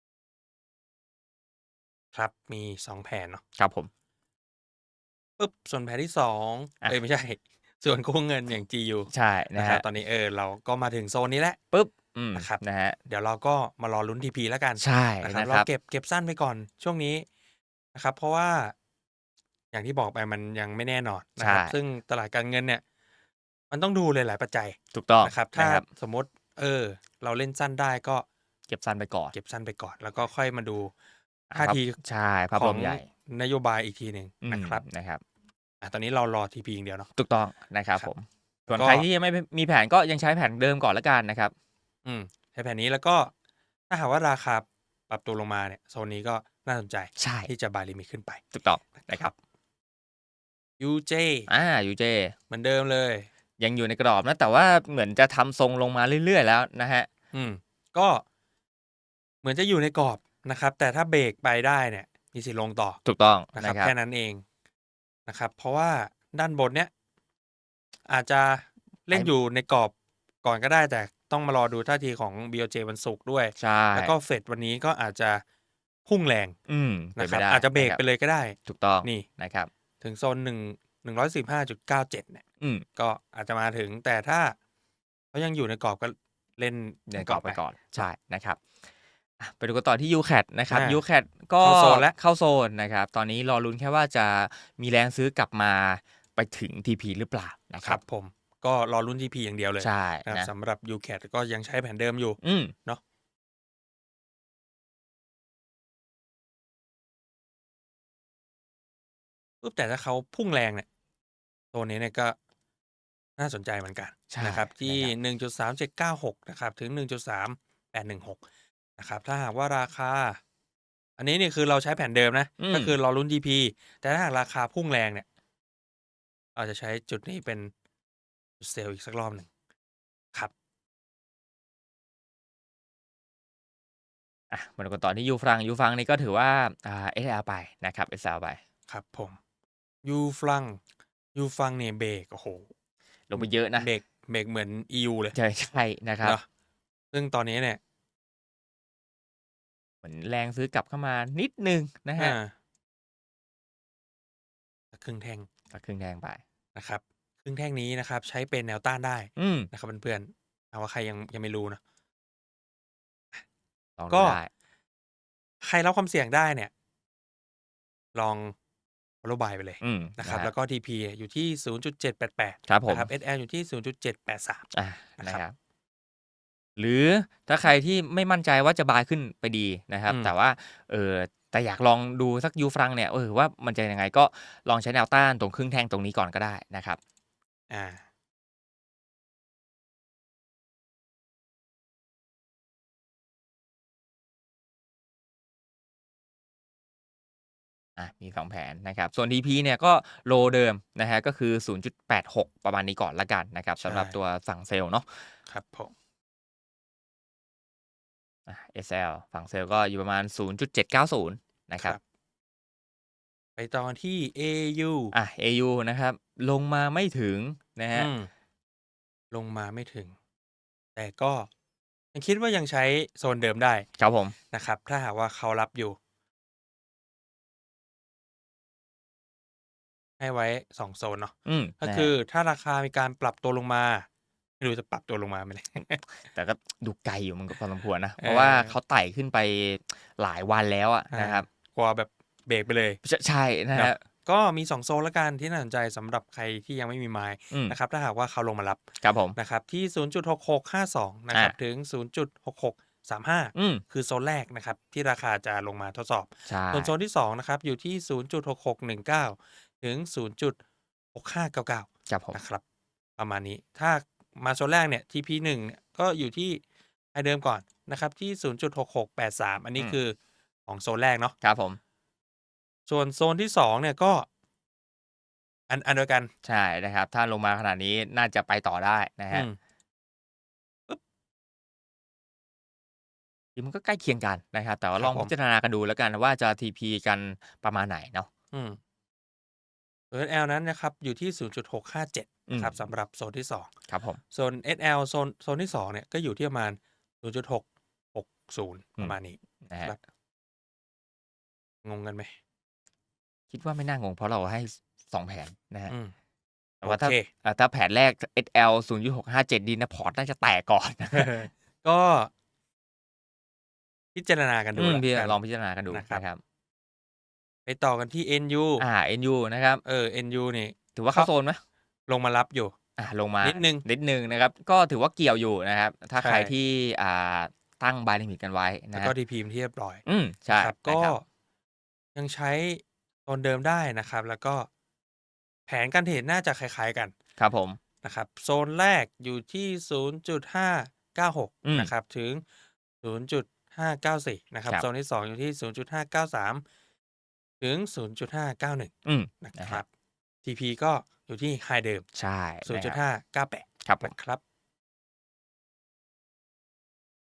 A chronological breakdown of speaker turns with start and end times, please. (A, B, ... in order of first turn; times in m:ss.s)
0:02.1-0:03.4 A
0:03.6-0:03.9 B
0:05.4-0:11.6 A
0:09.1-0:09.8 B
0:11.7-0:13.0 B
0:12.3-0:17.3 A
0:14.8-0:15.7 B
0:17.9-0:18.7 A
0:19.7-0:22.8 A
0:21.4-0:21.8 B
0:23.7-0:28.2 A
0:24.9-0:25.8 B
0:28.7-0:29.4 B
0:29.3-0:30.9 A
0:31.5-0:33.1 B
0:31.6-0:32.0 A
0:32.5-0:34.8 A
0:34.4-0:35.2 B
0:35.8-0:37.1 A
0:37.2-0:41.5 B
0:38.7-0:39.0 A
0:42.0-0:43.3 A
0:43.9-0:48.4 A
0:47.2-0:47.5 B
0:48.5-0:49.3 B
0:49.0-0:49.3 A
0:50.8-0:51.5 A
0:51.5-0:52.4 B
0:52.5-0:53.3 A
0:53.6-0:57.1 B
0:57.3-0:58.2 A
0:59.4-1:03.0 A
1:03.0-1:03.9 B
1:03.6-1:04.4 A
1:05.3-1:06.9 A
1:08.1-1:15.4 A
1:13.6-1:14.1 B
1:16.1-1:16.6 A
1:16.7-1:18.0 B
1:17.2-1:19.3 A
1:18.7-1:19.7 B
1:20.0-1:22.4 A
1:23.0-1:24.6 A
1:25.3-1:28.1 A
1:27.1-1:28.6 B
1:29.4-1:38.0 B
1:30.7-1:31.0 A
1:31.6-1:32.1 A
1:37.8-1:43.0 A
1:39.8-1:40.5 B
1:42.4-1:42.7 B
1:49.6-1:50.8 A
1:51.7-1:52.4 A
1:53.4-1:58.4 A
1:54.3-1:55.1 B
1:59.0-2:00.4 A
2:01.2-2:05.3 A
2:02.6-2:02.9 B
2:06.6-2:07.7 A
2:08.6-2:09.5 A
2:14.5-2:18.6 B
2:18.9-2:19.4 A
2:20.0-2:20.8 A
2:21.4-2:22.7 A
2:23.3-2:23.9 B
2:23.4-2:25.4 A
2:25.3-2:26.4 B
2:27.1-2:27.8 A
2:30.0-2:32.4 B
2:32.2-2:32.5 A
2:34.9-2:35.5 A
2:35.7-2:36.4 B
2:36.8-2:41.8 A
2:39.4-2:39.7 B
2:44.0-2:44.5 B
2:44.1-2:44.4 A
2:45.6-2:46.7 A
2:48.1-2:48.5 A
2:49.2-2:54.7 A
2:49.8-2:50.5 B
2:52.7-2:53.1 B
2:54.7-2:55.6 B
2:56.8-3:07.0 B
3:00.1-3:00.3 A
3:07.7-3:08.0 A
3:18.0-3:25.3 B
3:23.8-3:24.2 A
3:25.5-3:25.9 A
3:28.5-3:32.0 B
3:33.6-3:35.2 A
3:35.1-3:38.1 B
3:37.9-3:38.3 A
3:39.3-3:40.1 A
3:41.0-3:41.5 A
3:42.1-3:43.9 A
3:44.0-3:44.4 B
3:44.5-3:46.0 A
3:50.2-3:54.1 A
3:51.5-3:52.1 B
3:54.6-3:56.0 A
3:56.3-4:01.5 B
3:58.2-3:58.8 A
4:01.1-4:03.0 A
4:03.0-4:04.0 B
4:03.7-4:08.8 A
4:09.0-4:09.4 B
4:09.4-4:20.6 A
4:13.6-4:13.8 B
4:16.5-4:16.9 B
4:21.1-4:22.6 A
4:22.1-4:22.4 B
4:23.2-4:26.6 A
4:27.1-4:30.2 A
4:30.7-4:31.3 A
4:31.4-4:31.8 B
4:32.9-4:34.3 A
4:35.7-4:36.3 A
4:36.4-4:39.5 B
4:39.3-4:39.6 A
4:43.6-4:48.3 B
4:45.0-4:45.3 A
4:48.5-4:48.8 A
4:50.1-4:53.7 A
4:52.5-4:52.8 B
4:53.9-4:54.2 B
4:54.3-5:00.0 A
4:59.7-5:00.0 B
5:01.8-5:02.3 A
5:03.5-5:05.9 B
5:05.9-5:06.1 A
5:06.8-5:11.5 B
5:06.8-5:07.3 A
5:11.1-5:12.3 A
5:14.2-5:15.4 A
5:14.8-5:16.4 B
5:15.9-5:16.2 A
5:17.7-5:18.9 A
5:18.8-5:19.8 B
5:19.8-5:21.3 A
5:21.0-5:21.6 B
5:22.1-5:22.7 A
5:23.0-5:29.1 B
5:23.4-5:23.8 A
5:26.2-5:26.5 A
5:28.9-5:31.2 A
5:30.1-5:31.2 B
5:32.2-5:34.7 A
5:35.7-5:37.1 A
5:37.4-5:37.8 B
5:38.0-5:42.4 A
5:41.7-5:41.9 B
5:43.0-5:46.6 A
5:47.6-5:49.9 A
5:49.0-5:49.8 B
5:50.4-5:52.0 A
5:52.2-5:53.0 B
5:52.6-5:54.4 A
5:53.8-5:54.1 B